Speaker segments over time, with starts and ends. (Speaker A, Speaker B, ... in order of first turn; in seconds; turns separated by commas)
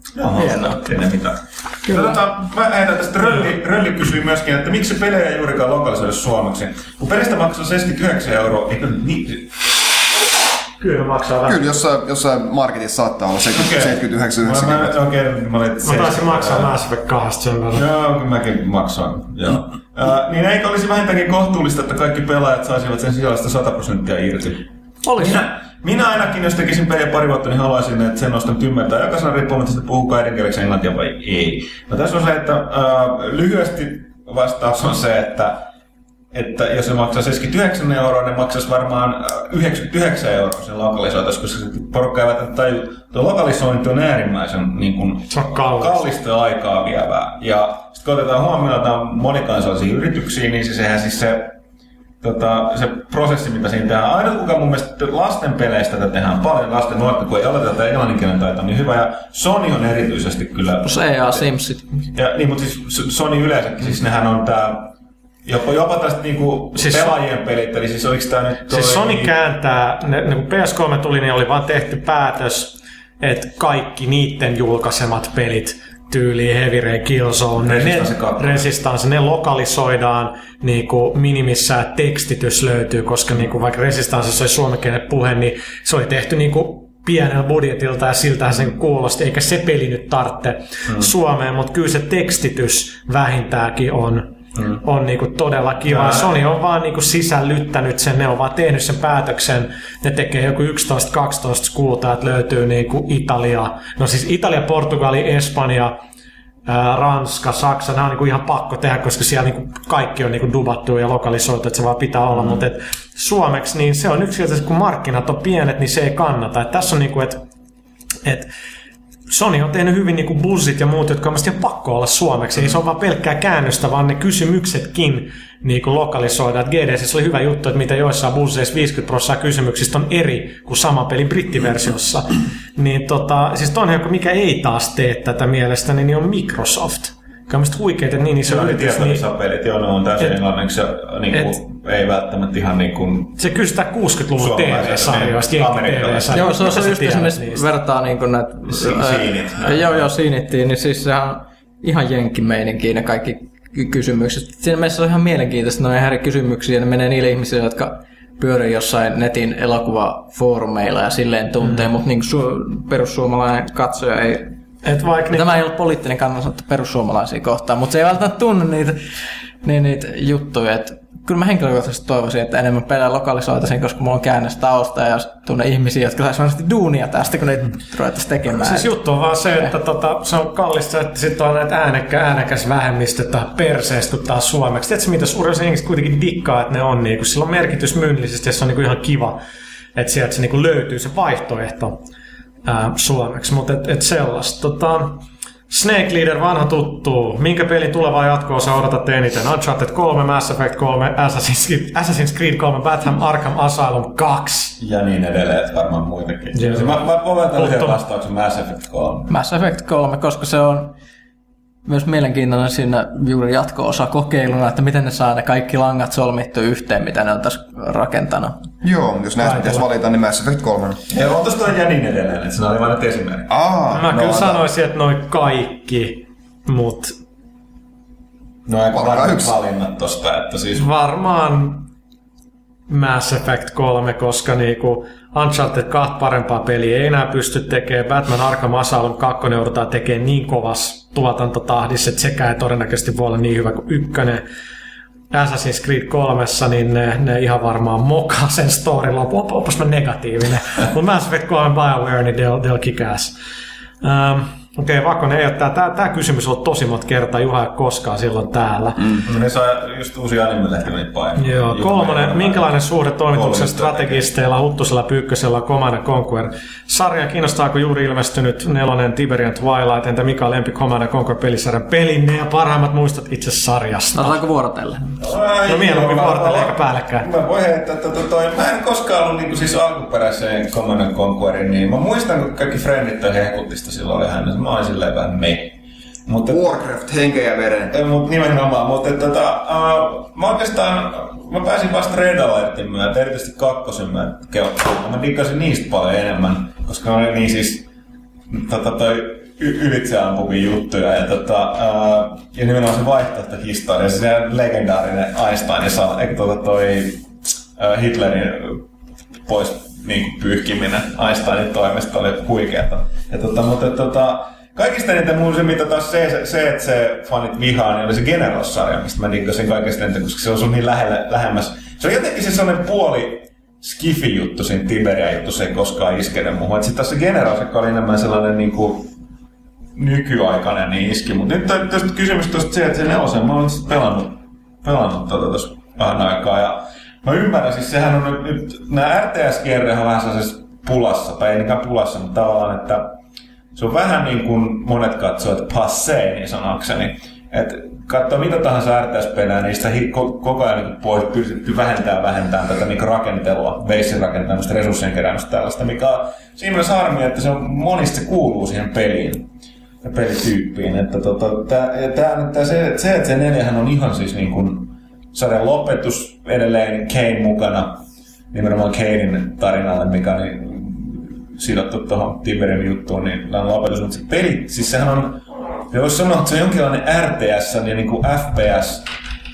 Speaker A: 0.2-9.7, Speaker B: 0.3-0.8, Speaker B: 1.9-2.2, Speaker C: 10.8-11.6, Speaker D: 11.4-14.9, Speaker A: 13.5-16.8, Speaker C: 15.8-17.9, Speaker A: 17.7-35.7, Speaker C: 25.1-25.4, Speaker A: 36.3-51.6, Speaker C: 45.3-46.0, Speaker A: 52.2-61.5, Speaker B: 60.8-62.1, Speaker A: 62.1-64.9, Speaker A: 65.5-69.3, Speaker C: 66.8-67.2, Speaker C: 68.7-106.0, Speaker A: 77.6-78.6, Speaker A: 95.9-96.3, Speaker C: 106.7-117.4, Speaker A: 112.4-112.6, Speaker C: 119.3-139.2, Speaker A: 138.4-143.4, Speaker C: 141.3-141.6, Speaker C: 143.4-147.7, Speaker A: 144.4-146.8, Speaker B: 146.3-164.5, Speaker A: 148.7-150.1, Speaker C: 164.8-165.6, Speaker B: 165.3-169.0, Speaker B: 169.6-178.9, Speaker C: 178.5-189.4, Speaker C: 189.9-192.0, Speaker C: 192.7-204.8, Speaker A: 204.8-209.3, Speaker C: 206.5-208.0, Speaker B: 209.3-210.9, Speaker B: 211.9-218.7, Speaker D: 218.8-221.0, Speaker C: 219.4-219.8, Speaker A: 221.1-223.5, Speaker D: 223.5-224.7, Speaker C: 223.9-227.2, Speaker A: 228.7-230.9, Speaker D: 228.9-229.6, Speaker C: 230.8-231.9, Speaker C: 232.9-244.4, Speaker C: 245.3-253.3, Speaker C: 254.0-259.2, Speaker A: 259.2-262.8, Speaker C: 261.4-274.4, Speaker A: 263.3-264.3, Speaker B: 274.1-275.2, Speaker A: 275.2-286.8, Speaker C: 275.7-277.3, Speaker D: 286.5-287.9, Speaker A: 287.9-297.9, Speaker A: 298.5-308.8, Speaker A: 309.5-329.1, Speaker A: 330.0-343.2, Speaker A: 343.7-359.5, Speaker A: 360.0-379.1